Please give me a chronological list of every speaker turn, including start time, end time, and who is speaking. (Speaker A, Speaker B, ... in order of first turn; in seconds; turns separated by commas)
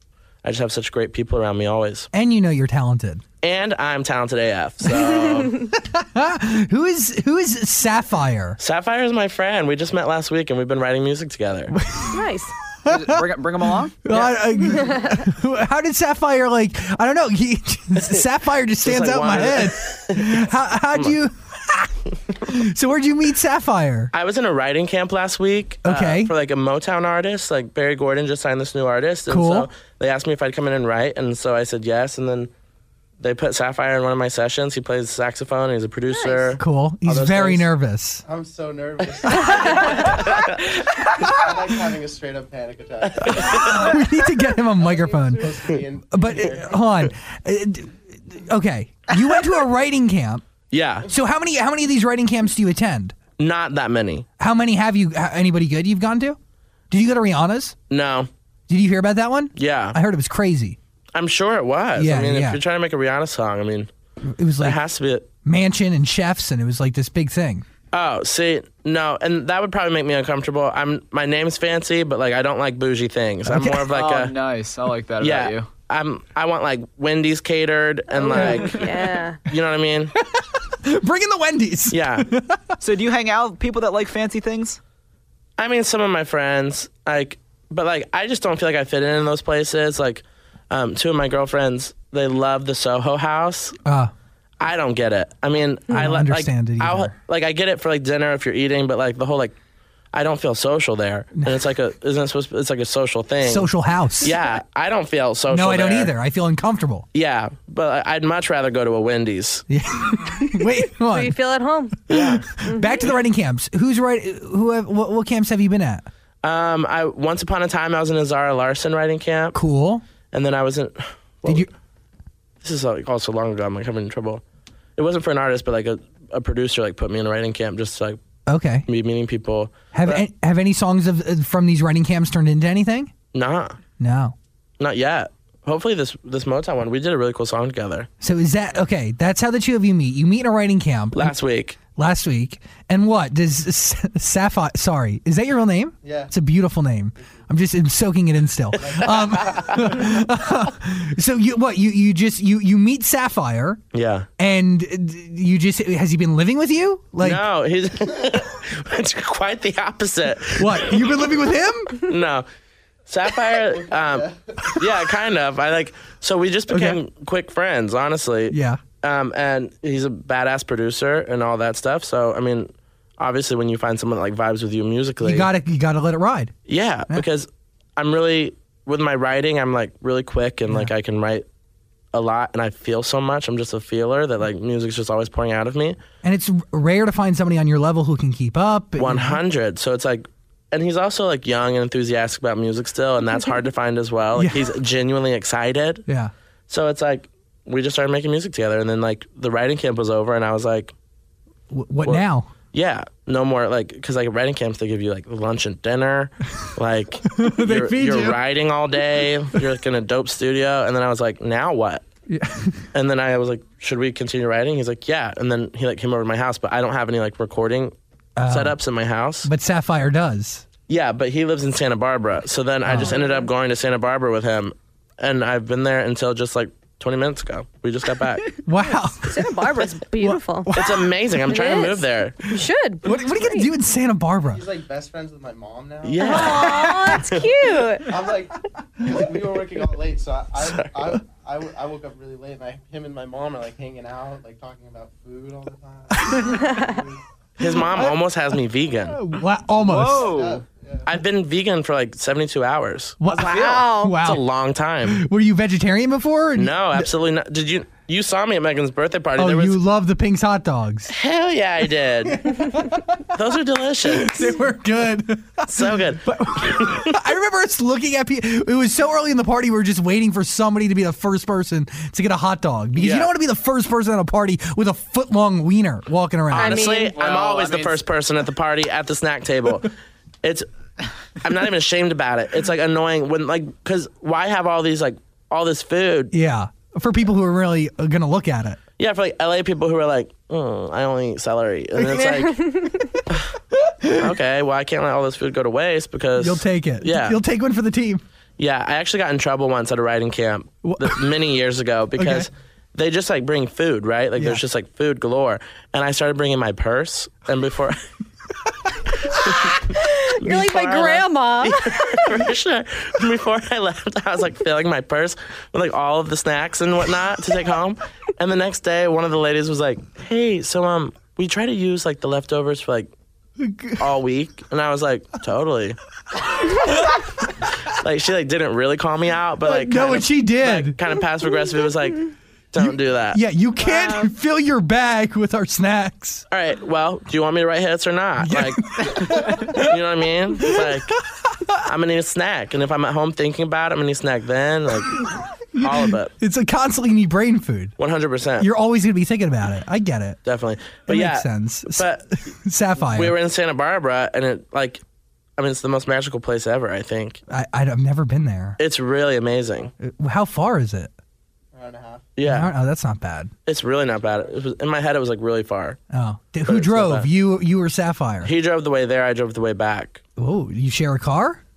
Speaker A: 0.4-2.1, Speaker B: 2.1-3.2, Speaker A: 3.4-5.5, Speaker B: 5.7-8.6, Speaker A: 8.6-11.7, Speaker B: 11.7-12.2, Speaker C: 12.1-12.5, Speaker B: 12.7-13.3, Speaker D: 12.9-14.3, Speaker B: 14.0-24.1, Speaker A: 18.8-21.1, Speaker A: 24.1-32.5, Speaker B: 25.9-26.3, Speaker B: 29.3-29.7, Speaker A: 33.2-37.7, Speaker C: 36.1-36.5, Speaker B: 36.6-38.2, Speaker E: 38.2-40.5, Speaker A: 39.4-40.8, Speaker C: 39.5-40.3, Speaker E: 41.2-44.0, Speaker A: 43.0-44.0, Speaker B: 43.4-45.5, Speaker E: 44.8-46.8, Speaker B: 46.1-50.4, Speaker A: 50.7-51.1, Speaker B: 51.1-53.2, Speaker A: 53.4-54.3, Speaker B: 54.4-56.4, Speaker B: 56.9-57.8, Speaker A: 57.9-58.3, Speaker B: 58.7-60.8, Speaker A: 59.5-60.0, Speaker A: 61.1-63.9, Speaker B: 62.0-62.6, Speaker B: 64.3-64.8, Speaker A: 64.6-65.3, Speaker B: 65.5-67.7, Speaker A: 67.9-74.3, Speaker B: 73.5-73.9, Speaker D: 73.8-75.7, Speaker A: 75.2-80.1, Speaker C: 78.3-79.4, Speaker B: 78.3-78.8, Speaker B: 80.2-82.8, Speaker A: 81.9-82.3, Speaker D: 82.8-84.8, Speaker A: 85.6-93.8, Speaker B: 93.8-94.1, Speaker A: 94.6-99.6, Speaker B: 95.9-97.2, Speaker A: 100.1-106.1, Speaker B: 101.4-101.6, Speaker B: 103.5-104.3, Speaker B: 105.5-107.1, Speaker A: 107.1-109.7, Speaker B: 109.7-111.4, Speaker C: 111.1-112.0, Speaker A: 112.1-112.5, Speaker B: 112.1-116.1, Speaker C: 112.6-113.1, Speaker A: 116.4-119.6, Speaker B: 119.5-120.0, Speaker A: 120.3-121.7, Speaker A: 122.6-124.4, Speaker A: 125.0-128.2, Speaker B: 128.5-128.9, Speaker A: 128.9-130.2, Speaker B: 129.9-133.1, Speaker A: 133.3-133.8, Speaker B: 134.0-134.3, Speaker A: 134.8-138.1, Speaker B: 138.2-141.3, Speaker A: 141.2-141.8, Speaker B: 141.9-153.8, Speaker E: 146.0-146.3, Speaker E: 147.2-147.4, Speaker E: 148.8-149.8, Speaker A: 153.9-154.3, Speaker B: 154.4-157.4, Speaker A: 157.2-161.3, Speaker B: 160.6-162.0, Speaker A: 162.0-162.5, Speaker A: 163.1-175.5, Speaker E: 163.7-164.7, Speaker B: 166.7-167.0, Speaker B: 168.5-168.8, Speaker B: 175.2-176.5, Speaker A: 176.7-181.5, Speaker A: 182.1-186.0, Speaker B: 186.2-189.4, Speaker A: 189.0-196.1, Speaker B: 194.4-194.6, Speaker B: 196.1-196.3, Speaker A: 196.7-200.9, Speaker B: 201.7-202.5, Speaker A: 202.0-212.1, Speaker B: 207.3-208.4, Speaker B: 212.3-212.9, Speaker A: 212.9-217.9, Speaker B: 218.4-218.8, Speaker A: 218.5-219.5, Speaker B: 219.4-220.6, Speaker A: 220.9-228.5, Speaker B: 222.8-223.2, Speaker B: 228.7-231.1, Speaker C: 229.3-230.7, Speaker A: 230.7-232.4, Speaker C: 231.5-233.7, Speaker B: 233.0-234.6, Speaker E: 234.5-236.3, Speaker A: 236.0-237.5, Speaker C: 236.2-238.1, Speaker E: 238.1-248.2, Speaker B: 246.2-246.6, Speaker A: 247.6-249.2, Speaker B: 249.1-250.3, Speaker D: 249.8-250.6, Speaker E: 250.2-251.1, Speaker A: 251.1-253.2, Speaker B: 253.2-254.4, Speaker C: 253.3-254.2, Speaker D: 253.4-253.9, Speaker A: 254.2-255.2, Speaker B: 255.1-257.1, Speaker A: 256.6-259.8, Speaker B: 259.4-261.1, Speaker A: 261.1-262.6, Speaker B: 262.4-263.2, Speaker A: 263.3-264.5, Speaker B: 264.1-276.8, Speaker A: 265.7-267.2, Speaker A: 272.9-273.3, Speaker A: 276.5-279.9, Speaker C: 276.5-277.2, Speaker D: 276.8-278.0, Speaker A: 281.3-286.3, Speaker B: 286.3-288.8, Speaker A: 289.0-292.6, Speaker B: 292.0-292.3, Speaker C: 292.2-293.1, Speaker B: 293.9-294.3, Speaker A: 294.2-297.4, Speaker B: 296.4-298.2, Speaker A: 298.6-308.0, Speaker B: 300.9-301.3, Speaker B: 302.2-302.5, Speaker A: 309.3-323.1, Speaker C: 309.9-312.4, Speaker B: 323.6-324.1, Speaker A: 324.0-326.0, Speaker A: 327.9-333.4, Speaker B: 329.6-331.0, Speaker B: 332.8-336.4, Speaker C: 333.8-334.3, Speaker A: 336.5-341.1, Speaker B: 338.4-339.9, Speaker B: 340.6-341.8, Speaker A: 341.8-346.3, Speaker B: 346.4-348.0, Speaker A: 348.0-348.7, Speaker B: 348.6-350.4, Speaker A: 350.4-352.3, Speaker B: 351.1-353.3, Speaker A: 353.0-355.0, Speaker A: 355.6-357.4, Speaker B: 357.5-358.8, Speaker A: 358.8-359.9, Speaker B: 360.0-361.1, Speaker E: 361.7-362.3, Speaker A: 362.4-362.7, Speaker B: 362.4-363.5, Speaker A: 363.7-366.0, Speaker B: 366.1-368.5, Speaker A: 366.6-367.3, Speaker A: 368.4-370.2, Speaker B: 370.4-371.6